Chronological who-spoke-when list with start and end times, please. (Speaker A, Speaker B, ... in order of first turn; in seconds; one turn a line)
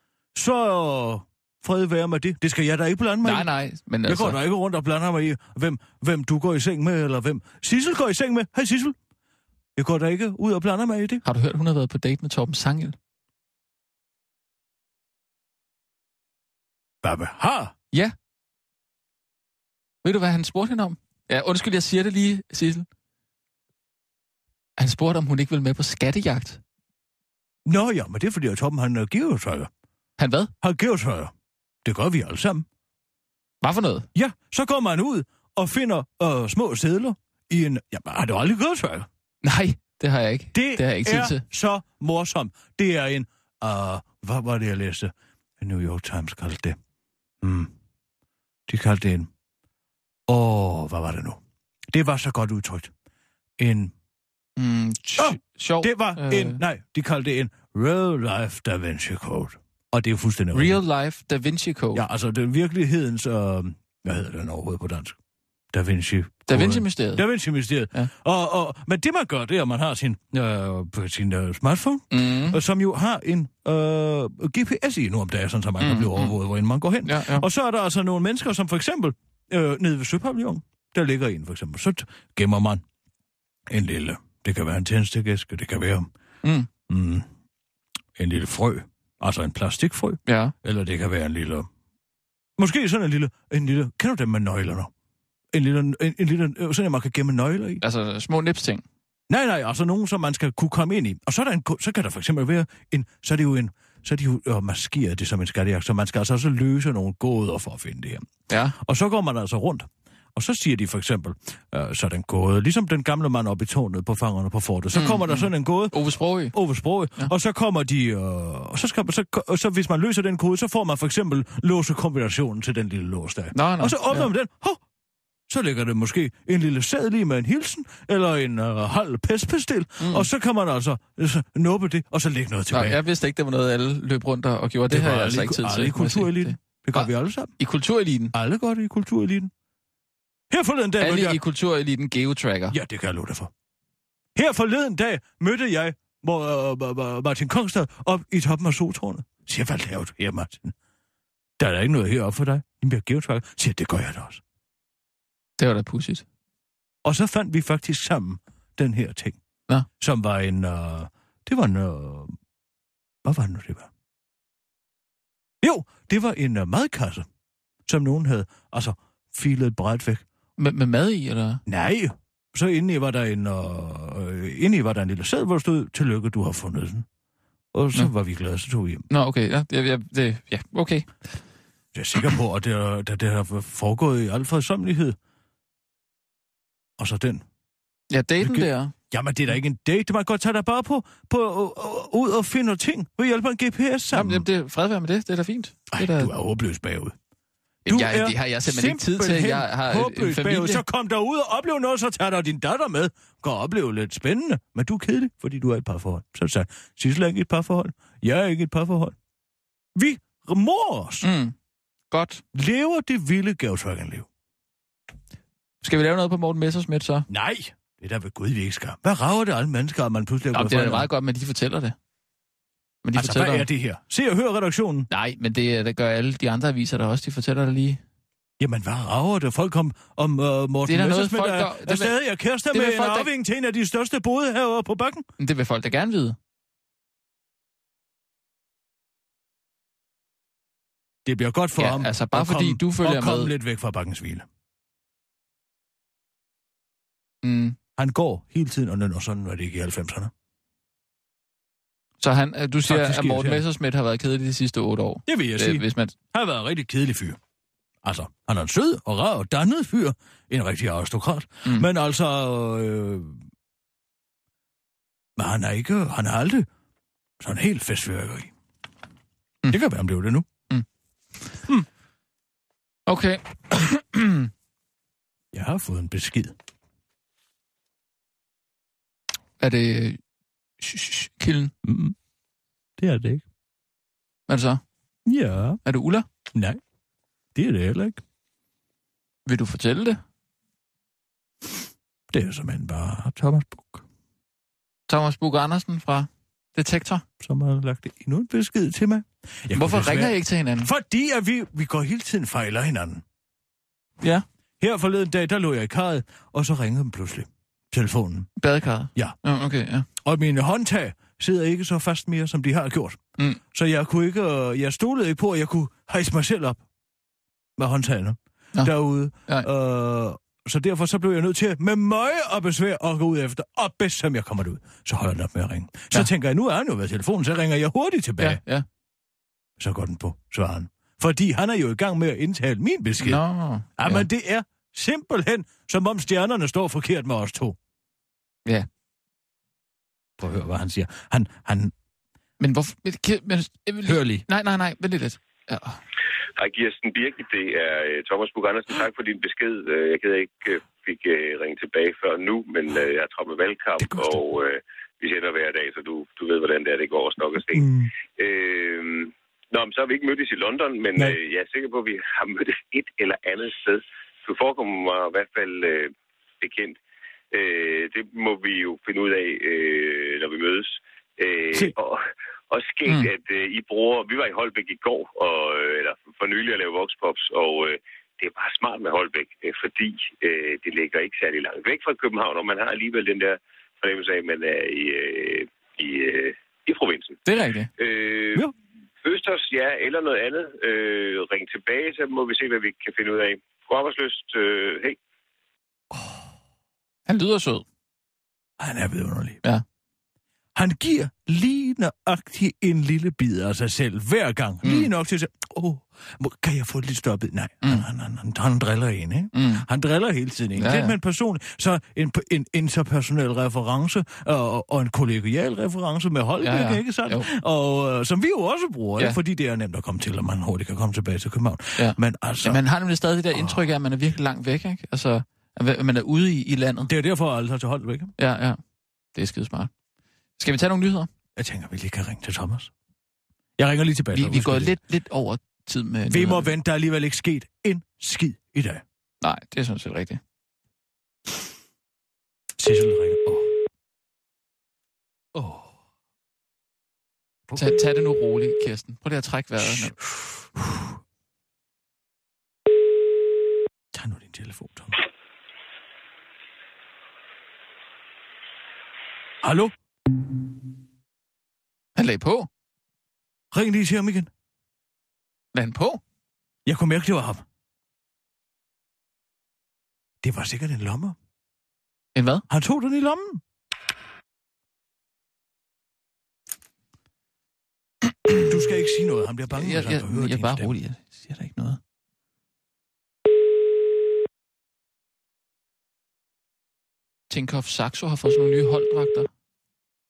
Speaker A: 0.3-3.5
Speaker B: 3.2-4.4
Speaker A: 4.0-8.9
Speaker A: 9.8-11.2
Speaker B: 11.2-12.9
Speaker A: 17.0-17.7
Speaker B: 20.0-22.9
Speaker B: 24.8-26.6
Speaker A: 27.6-29.7
Speaker B: 30.2-30.5
Speaker A: 30.6-31.3
Speaker A: 31.8-32.6
Speaker B: 33.6-34.1
Speaker A: 34.1-39.1
Speaker B: 39.4-41.4
Speaker A: 40.5-46.8
Speaker A: 47.4-47.7
Speaker A: 48.7-49.3
Speaker A: 50.3-52.9
Speaker A: 53.6-53.9
Speaker B: 54.6-56.6
Speaker A: 55.2-60.8
Speaker B: 60.5-62.0
Speaker A: 61.9-65.2
Speaker A: 65.7-82.8
Speaker B: 66.5-67.2
Speaker B: 72.1-72.6
Speaker B: 75.8-76.3
Speaker B: 77.0-77.5
Speaker A: 83.7-86.1
Speaker B: 86.4-86.7
Speaker A: 86.9-87.3
Speaker A: 88.2-91.7
Speaker B: 90.2-90.5
Speaker A: 92.6-94.9
Speaker A: 95.5-97.8
Speaker B: 97.8-98.8
Speaker A: 99.3-124.8
Speaker B: 108.5-108.8
Speaker B: 114.9-116.5
Speaker B: 123.5-124.3
Speaker A: 125.5-133.0
Speaker B: 130.0-130.3
Speaker B: 132.7-138.3
Speaker A: 134.9-137.5
Speaker A: 138.3-139.5
Speaker A: 140.5-141.4
Speaker B: 141.0-142.8
Speaker A: 142.7-143.5
Speaker A: 144.3-150.7
Speaker A: 151.6-154.4
Speaker B: 155.6-156.2
Speaker A: 157.0-159.4
Speaker A: 160.0-162.3
Speaker A: 163.2-163.9
Speaker A: 165.6-167.3
Speaker A: 167.8-170.2
Speaker B: 170.6-171.6
Speaker A: 171.7-177.1
Speaker A: 177.7-179.1
Speaker B: 179.1-181.3
Speaker A: 181.9-185.2
Speaker A: 187.0-187.4
Speaker B: 188.1-188.9
Speaker A: 188.4-194.5
Speaker B: 194.1-196.3
Speaker A: 195.9-197.1
Speaker B: 197.8-200.8
Speaker A: 197.8-209.2
Speaker A: 209.9-211.3
Speaker B: 211.2-211.5
Speaker B: 212.1-212.4
Speaker A: 212.5-214.3
Speaker B: 215.8-217.3
Speaker A: 217.3-221.1
Speaker B: 220.5-221.9
Speaker B: 223.0-223.7
Speaker A: 223.2-225.1
Speaker B: 225.1-228.0
Speaker A: 228.6-235.3
Speaker B: 230.8-232.2
Speaker B: 232.7-233.3
Speaker B: 235.4-236.4
Speaker A: 241.2-244.5
Speaker B: 241.8-243.5
Speaker B: 247.4-247.8
Speaker A: 247.9-250.3
Speaker B: 252.2-256.1
Speaker A: 252.9-253.6
Speaker A: 255.3-257.4
Speaker A: 258.0-263.4
Speaker A: 265.4-266.7
Speaker A: 267.4-268.5
Speaker A: 269.7-270.5
Speaker B: 273.1-274.5
Speaker A: 275.5-276.6
Speaker B: 279.6-280.2
Speaker B: 280.8-281.7
Speaker A: 281.8-282.1
Speaker A: 283.0-283.4
Speaker B: 284.5-284.8
Speaker A: 285.2-285.8
Speaker B: 285.8-286.3
Speaker A: 286.5-286.8
Speaker A: 287.5-288.2
Speaker B: 289.4-290.2
Speaker A: 292.3-294.0
Speaker B: 295.1-297.2
Speaker A: 297.4-303.2
Speaker B: 299.7-300.9
Speaker A: 304.8-308.5
Speaker B: 308.6-310.1
Speaker A: 310.2-313.2
Speaker A: 313.7-316.8
Speaker A: 317.8-328.6
Speaker B: 328.4-328.9
Speaker A: 329.8-333.4
Speaker B: 333.2-334.2
Speaker A: 334.0-337.8
Speaker A: 340.4-341.9
Speaker B: 342.6-346.0
Speaker A: 344.0-344.4
Speaker C: 346.6-367.0
Speaker A: 354.0-354.4
Speaker A: 357.7-358.1
Speaker C: 367.5-387.4
Speaker B: 387.4-387.9
Speaker C: 388.0-388.7
Speaker C: 389.2-395.2
Speaker B: 397.3-397.8
Speaker A: 398.8-399.6
Speaker A: 400.7-422.8
Speaker B: 404.8-405.1
Speaker B: 409.5-409.8
Speaker B: 410.8-411.1
Speaker B: 416.6-417.5
Speaker B: 422.0-427.1
Speaker A: 423.5-423.8
Speaker A: 427.1-428.3
Speaker B: 428.4-428.8
Speaker B: 429.3-429.9
Speaker B: 430.6-431.3
Speaker A: 431.6-432.9
Speaker A: 433.8-435.0
Speaker B: 434.3-436.7
Speaker A: 436.3-439.0
Speaker B: 439.4-440.4
Speaker A: 442.8-443.8
Speaker A: 445.5-445.9
Speaker A: 447.7-448.0
Speaker B: 447.8-450.1
Speaker A: 449.8-450.2
Speaker A: 450.8-451.1
Speaker A: 454.1-455.2
Speaker A: 459.6-459.9
Speaker B: 462.1-462.7
Speaker A: 463.7-464.5
Speaker B: 465.7-466.2
Speaker A: 466.9-467.6
Speaker A: 470.4-471.4
Speaker B: 472.3-472.6
Speaker A: 472.7-473.6
Speaker A: 478.7-480.9
Speaker B: 479.7-482.0
Speaker B: 487.5-489.5